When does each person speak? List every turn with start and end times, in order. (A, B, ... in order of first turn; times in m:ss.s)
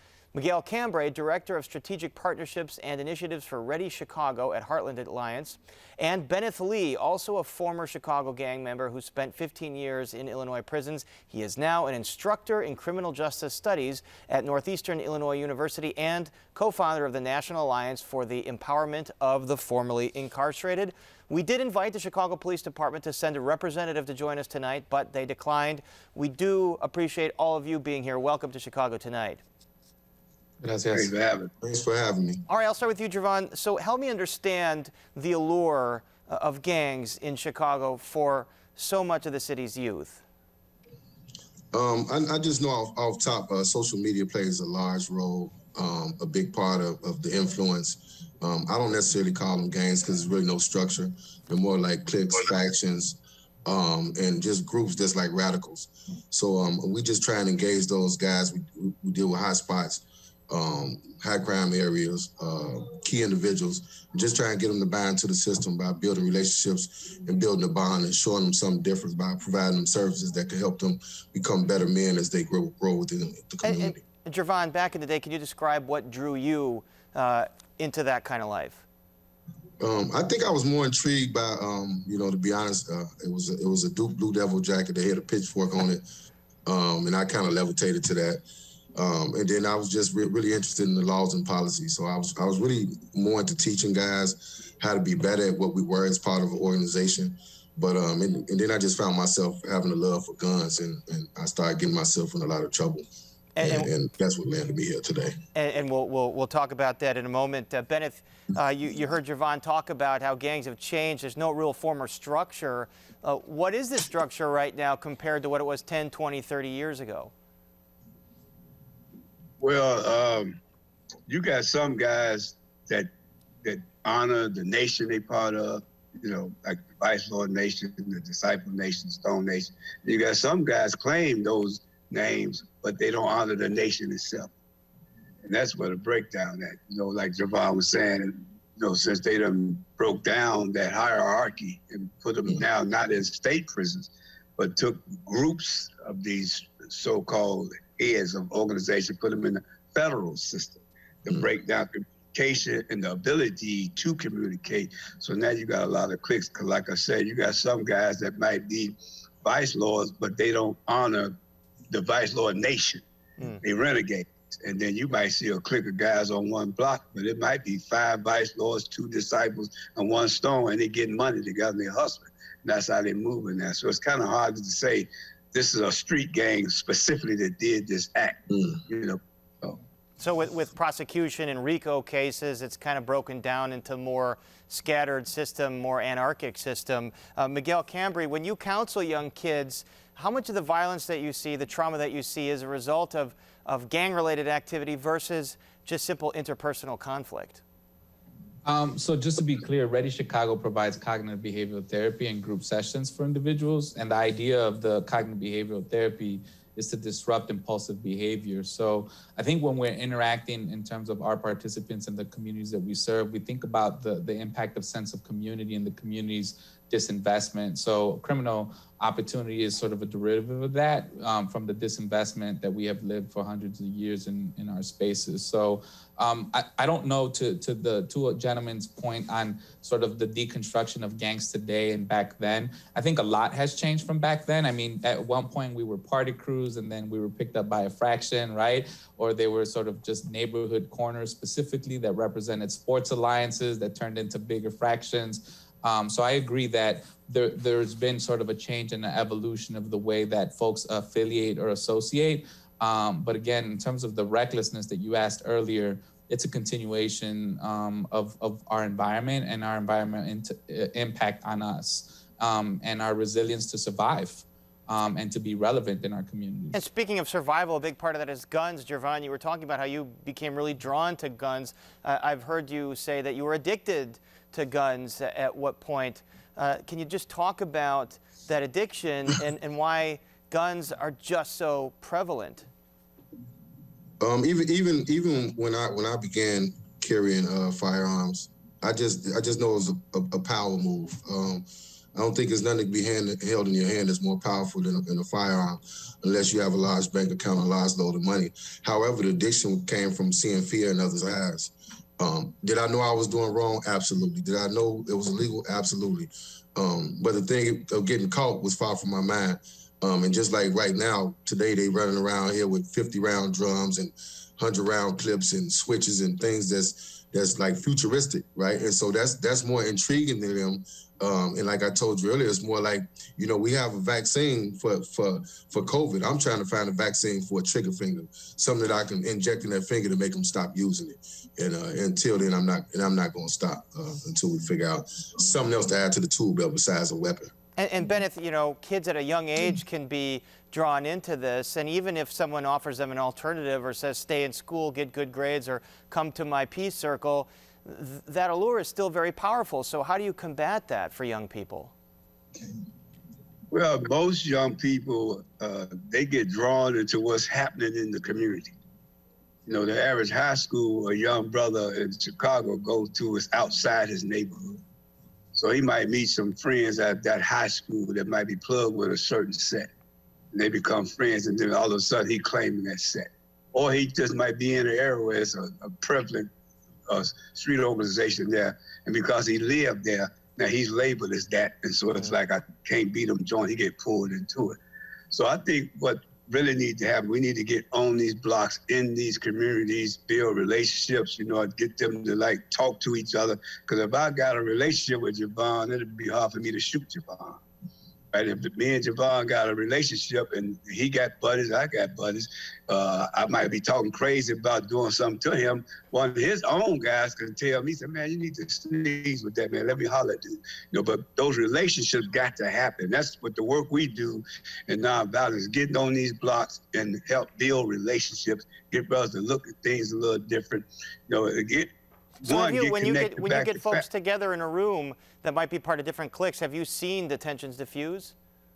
0:00.3-0:29.4 A
0:30.6-0:31.1 B
0:30.9-0:31.5 C
0:31.6-0:32.4 D
0:32.5-0:40.2 A
0:41.7-1:14.0 D
1:13.6-1:18.8 A
1:19.8-1:26.0 D
1:26.7-1:28.4 D
1:29.0-1:43.1 D
1:43.6-1:43.9 A
1:43.6-1:45.4 D
1:45.6-1:57.3 A
1:59.6-2:00.6 C
2:01.3-2:03.1 C
2:03.6-2:14.5 C
2:15.4-2:41.3 C
2:41.9-2:43.0 C
2:43.6-2:59.8 C
3:00.2-3:17.6 A
3:18.6-4:26.8 B
4:26.7-4:42.7 A
4:44.2-5:37.5 D
5:37.8-5:51.9 A
5:53.7-5:58.7 C
5:59.7-6:04.8 C
6:05.5-6:09.9 C
6:10.5-6:16.5 C
6:17.1-6:24.8 C
6:25.3-6:37.6 C
6:38.3-7:01.9 C
7:02.4-7:04.0 C
7:02.4-7:08.4 A